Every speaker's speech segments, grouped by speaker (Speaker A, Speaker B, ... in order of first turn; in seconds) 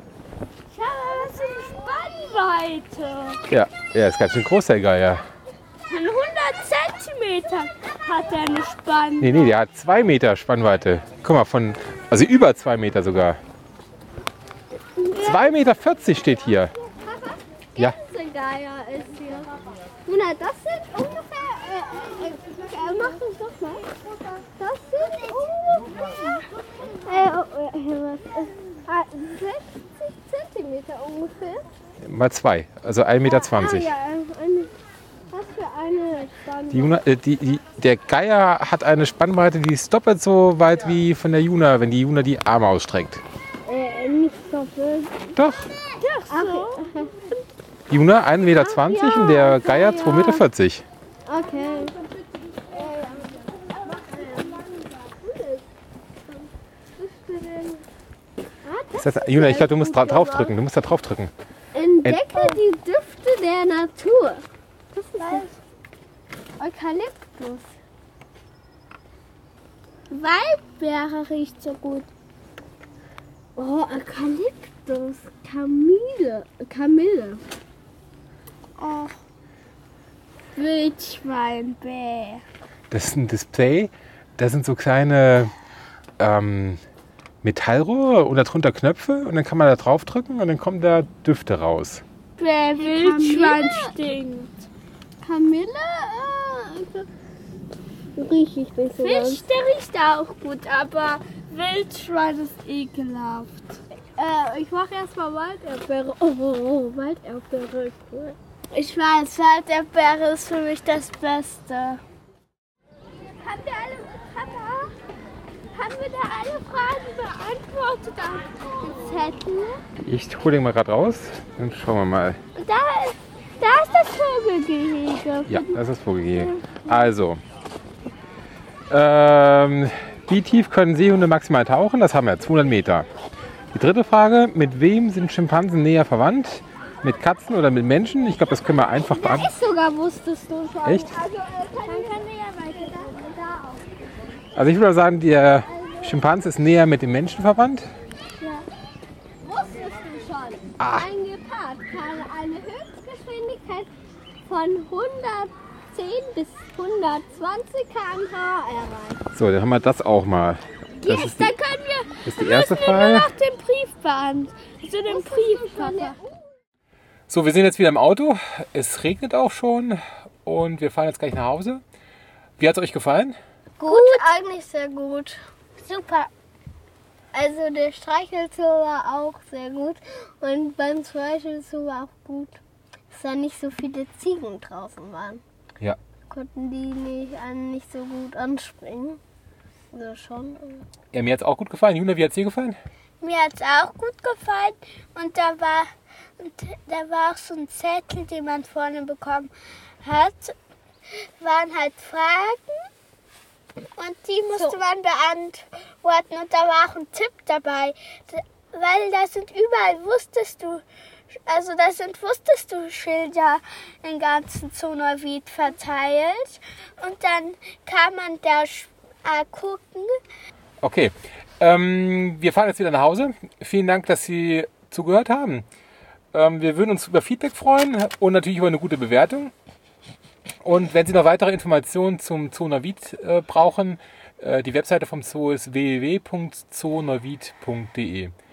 Speaker A: 0.7-3.4, 5.9-9.6, 25.3-26.4, 46.0-46.9, 53.9-54.5, 57.1-57.8, 62.3-62.6, 65.2-65.6, 70.1-72.1, 78.8-79.2, 80.5-82.4, 92.4-94.7, 99.0-103.8, 108.7-112.0, 113.3-114.9, 115.7-119.8, 122.5-127.1, 141.9-143.6, 148.4-148.6, 161.0-166.2, 173.8-174.3, 175.8-176.3, 193.2-200.5, 201.4-202.9, 203.9-210.8, 211.4-220.2
Speaker B: 3.5-5.2, 9.2-13.4, 15.2-16.7, 32.0-33.9, 36.7-43.2, 45.4-45.7, 47.9-50.8, 59.0-61.3, 82.9-85.5, 86.2-86.8, 87.4-92.0, 120.0-122.4, 125.5-127.4, 128.9-133.1, 133.7-139.5, 140.8-141.1, 144.5-147.9, 150.8-151.1, 159.3-161.5, 162.2-163.3, 167.3-171.8, 172.6-173.4, 191.1-192.8, 220.8-225.6, 226.3-229.5, 230.6-238.3
Speaker C: 15.0-15.5, 16.8-19.5, 20.1-26.2, 27.0-31.6, 33.2-34.7, 35.3-37.0, 43.6-45.3, 46.3-47.2, 48.6-50.4, 51.2-52.0, 52.7-55.6, 57.0-57.2, 58.6-60.5, 61.7-65.5, 66.6-67.7, 73.6-77.4, 92.8-93.9, 95.2-97.1, 98.2-99.4, 104.2-108.3, 139.1-143.8, 145.8-146.2, 149.4-153.9, 154.4-159.2, 165.1-166.4, 173.8-175.4, 177.3-182.6, 183.1-185.4, 186.3-189.2, 189.9-190.8